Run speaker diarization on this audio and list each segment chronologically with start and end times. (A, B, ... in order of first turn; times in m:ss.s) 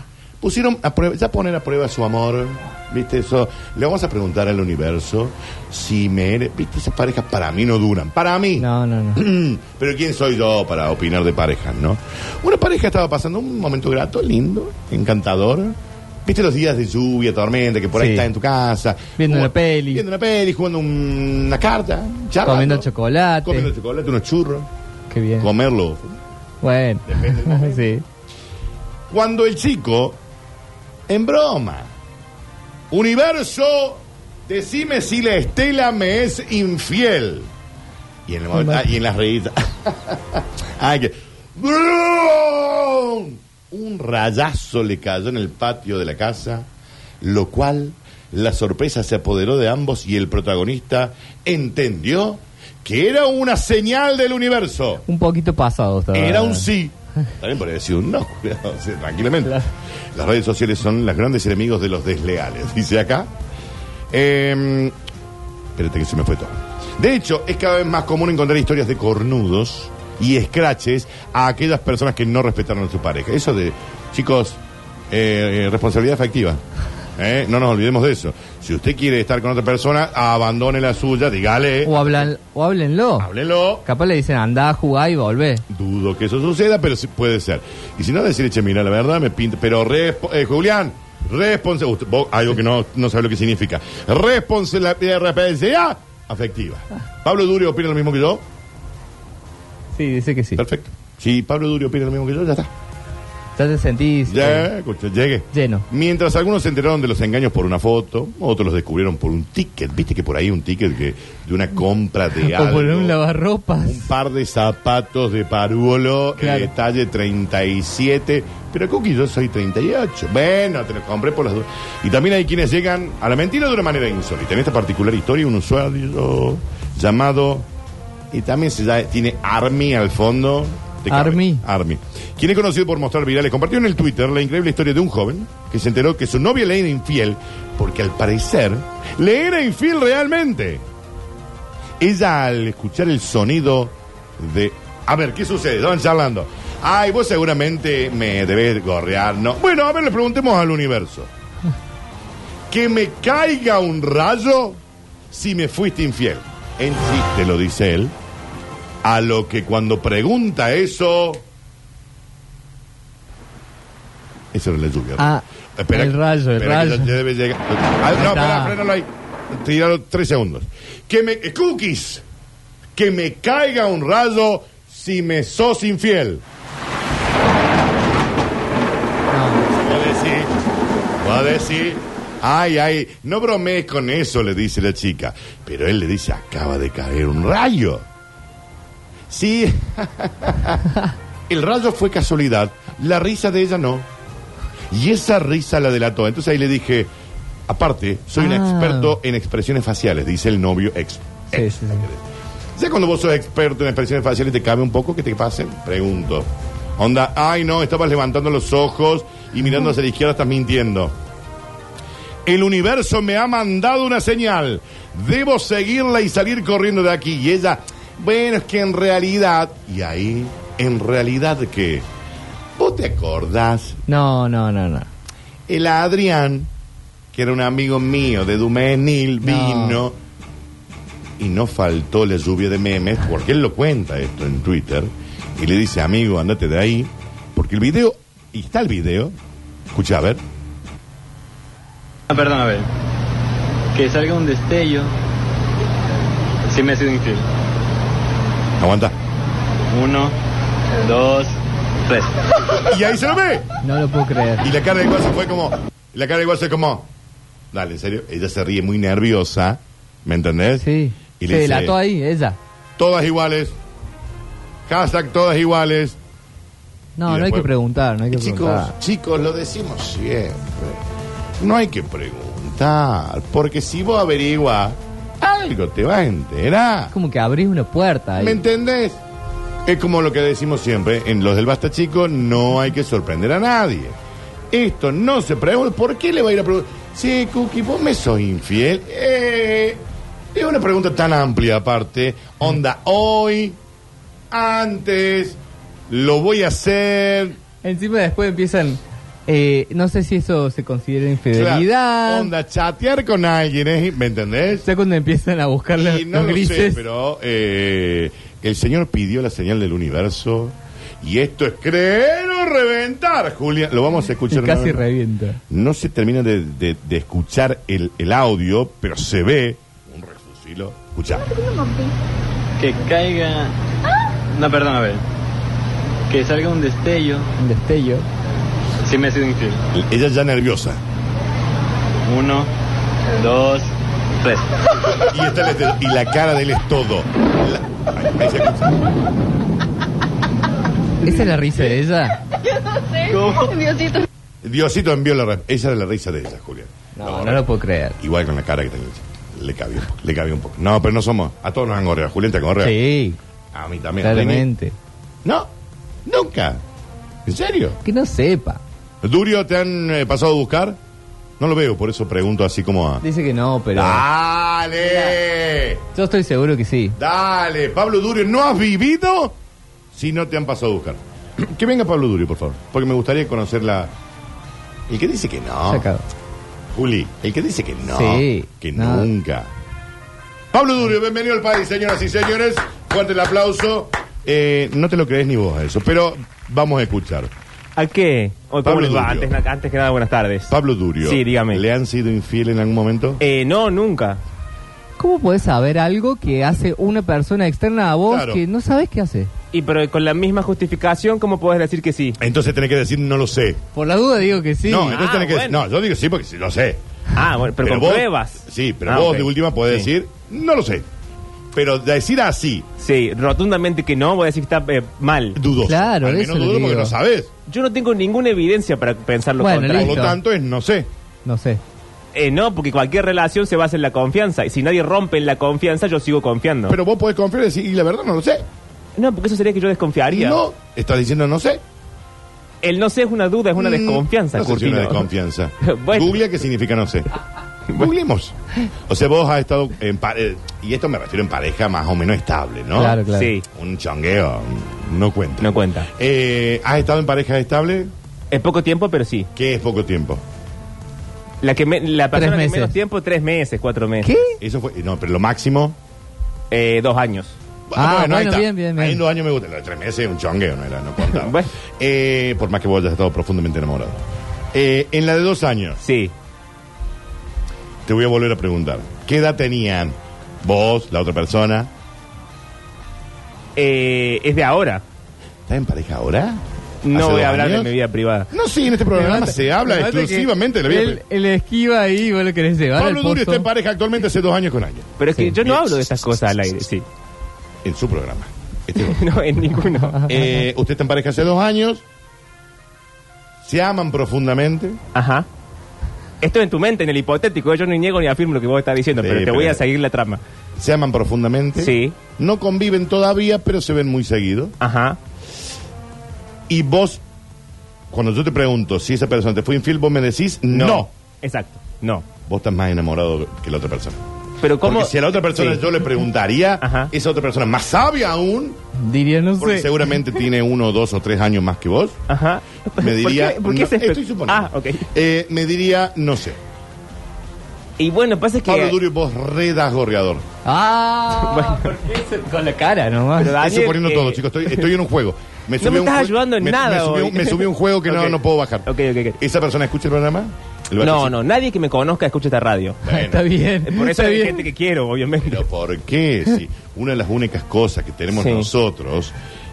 0:00.4-0:22.9 A
0:08.6-0:09.2 B
0:18.0-0:18.3 B
0:19.2-0:20.0 B
0:22.4-0:23.7 B
0:23.4-0:24.7 A
0:25.1-0:25.5 B
0:25.4-0:26.2 A
0:26.6-0:28.0 B
0:27.0-0:27.9 A
0:29.1-0:30.2 A
0:31.1-0:31.9 A
0:32.9-0:37.5 A
0:38.3-0:46.7 A
0:38.5-0:38.8 B
0:47.2-0:55.0 A
0:55.1-0:56.7 B
0:56.1-0:59.6 A
1:00.2-1:03.3 A
1:04.1-1:04.9 A
1:05.8-1:14.6 A
1:15.1-1:16.6 A
1:17.2-1:22.3 A
1:21.8-1:23.3 B
1:23.2-1:23.9 A
1:23.8-1:25.6 B
1:25.7-1:38.4 A
1:40.0-1:40.6 B
1:40.6-1:42.7 A
1:43.6-1:44.7 B
1:44.3-1:53.2 A
1:45.5-1:45.8 B
1:52.4-1:54.1 B
1:53.8-2:07.7 A
1:56.4-1:56.7 B
2:08.3-2:20.8 A
2:11.1-2:11.6 B
2:22.0-2:31.3 A
2:32.7-2:34.8 A
2:35.3-2:38.1 A
2:39.0-2:41.4 A
2:44.5-2:52.2 A
2:45.2-2:47.2 B
2:48.1-2:48.8 B
2:53.0-2:56.4 A
2:59.3-2:59.7 B
2:59.7-3:00.5 A
3:01.2-3:08.0 A
3:09.3-3:10.8 A
3:11.5-3:14.1 A
3:14.9-3:17.1 A
3:17.7-3:22.2 A
3:18.4-3:19.2 B
3:21.5-3:22.0 B
3:22.8-3:31.1 A
3:32.4-3:42.0 A
3:42.8-3:44.0 A
3:44.1-3:45.1 B
3:45.7-3:46.7 A
3:47.3-3:50.2 A
3:49.4-3:50.0 B
3:51.4-3:59.4 A
3:59.9-4:00.4 A
4:02.3-4:02.9 C
4:04.0-4:05.1 C
4:06.7-4:07.4 C
4:08.8-4:09.2 A
4:09.9-4:10.4 C
4:11.0-4:11.5 C
4:12.1-4:12.3 C
4:12.9-4:13.7 A
4:13.8-4:14.7 B
4:14.6-4:17.1 A
4:17.7-4:20.9 A
4:20.8-4:22.6 B
4:21.4-4:22.0 A
4:23.0-4:23.8 A
4:24.9-4:26.2 A
4:27.2-4:28.9 B
4:27.2-4:27.7 A
4:28.3-4:31.0 A
4:31.6-4:37.1 A
4:37.1-4:38.6 B
4:38.4-4:39.2 A
4:39.9-4:44.2 A
4:44.7-4:50.0 A
4:50.5-4:53.8 A
4:54.5-4:55.6 A
4:56.1-4:57.6 A
4:57.8-5:02.5 B
5:01.5-5:04.9 A
5:04.8-5:07.0 B
5:06.0-5:15.0 A
5:14.5-5:15.6 B
5:15.7-5:21.6 A
5:22.8-5:23.7 C
5:24.5-5:25.2 C
5:26.3-5:27.5 C
5:27.6-5:28.3 B
5:29.0-5:29.8 C
5:30.0-5:31.0 A
5:32.3-5:32.7 C
5:33.4-5:33.9 C
5:34.4-5:34.7 C
5:35.2-5:39.0 A
5:41.2-5:42.4 B
5:43.2-5:44.2 C
5:44.6-5:47.7 A
5:47.2-5:48.2 B
5:48.2-5:53.0 A
5:52.8-5:53.4 B
5:53.7-5:54.7 A
5:54.2-5:55.0 B
5:55.4-5:55.7 A
5:56.3-5:56.8 A
5:57.5-5:58.0 A
5:58.0-5:58.8 B
5:59.2-6:01.0 A
6:01.6-6:03.2 A
6:03.2-6:04.2 B
6:03.9-6:06.0 A
6:05.0-6:05.4 B
6:06.1-6:07.2 B
6:07.2-6:09.6 A
6:10.1-6:14.1 A
6:15.1-6:16.1 A
6:15.9-6:16.2 B
6:16.9-6:19.7 A
6:18.1-6:19.3 B
6:20.7-6:27.5 A
6:28.0-6:31.8 D
6:28.8-6:29.6 A
6:30.7-6:33.4 A
6:33.4-6:34.4 D
6:35.2-6:39.5 B
6:38.3-6:38.6 A
6:39.7-6:42.4 D
6:42.4-6:43.8 A
6:43.9-6:45.2 B
6:44.8-6:47.0 A
6:45.1-6:45.8 D
6:47.3-6:50.1 D
6:47.8-6:51.1 A
6:51.7-6:52.9 A
6:53.0-6:55.6 D
6:55.6-6:57.5 A
6:55.8-6:57.2 B
6:57.7-7:00.3 D
6:59.6-7:00.4 B
6:59.9-7:01.1 A
7:01.4-7:01.8 B
7:02.3-7:07.0 D
7:06.9-7:08.6 A
7:09.2-7:10.6 D
7:10.3-7:11.8 A
7:12.8-7:15.3 D
7:13.8-7:17.3 A
7:15.8-7:16.4 D
7:18.0-7:28.1 A
7:22.9-7:23.6 B
7:23.3-7:23.6 D
7:25.6-7:26.1 D
7:28.5-7:29.5 D
7:29.6-7:30.4 A
7:31.6-7:34.3 D
7:32.3-7:33.0 B
7:34.2-7:34.6 B
7:34.6-7:36.0 A
7:36.7-7:37.6 D
7:37.9-7:44.2 A
7:38.0-7:39.2 B
7:41.2-7:41.7 D
7:44.7-7:46.0 A
7:46.0-7:46.3 D
7:48.1-7:51.9 A
7:53.8-7:55.0 D
7:55.7-7:58.0 A
7:57.0-7:58.5 D
7:58.5-8:01.2 A
7:59.0-8:03.7 B
8:03.0-8:05.1 A
8:05.2-8:07.0 D
8:05.6-8:06.8 A
8:07.8-8:09.3 A
8:09.0-8:10.2 D
8:10.2-8:12.0 A
8:13.6-8:15.0 A
8:15.2-8:15.5 D
8:16.4-8:20.4 D
8:19.2-8:19.8 A
8:20.8-8:24.8 A
8:21.8-8:22.2 D
8:24.8-8:25.2 D
8:26.7-8:27.2 A
8:28.1-8:31.1 A
8:30.7-8:32.3 D
8:32.5-8:34.2 A
8:34.6-8:35.9 D
8:34.8-8:38.8 A
8:36.8-8:37.1 D
8:39.0-8:39.9 B
8:39.6-8:42.2 A
8:42.3-8:45.1 D
8:43.0-8:46.6 A
8:48.0-8:49.0 D
8:48.6-8:50.4 A
8:50.6-8:53.6 B
8:51.4-8:51.9 D
8:53.4-8:54.9 D
8:53.5-9:01.4 A
8:55.8-8:59.4 D
9:01.0-9:03.0 D
9:03.0-9:03.5 A
9:03.0-9:04.6 B
9:03.8-9:05.6 D
9:05.4-9:09.4 A
9:08.4-9:08.7 D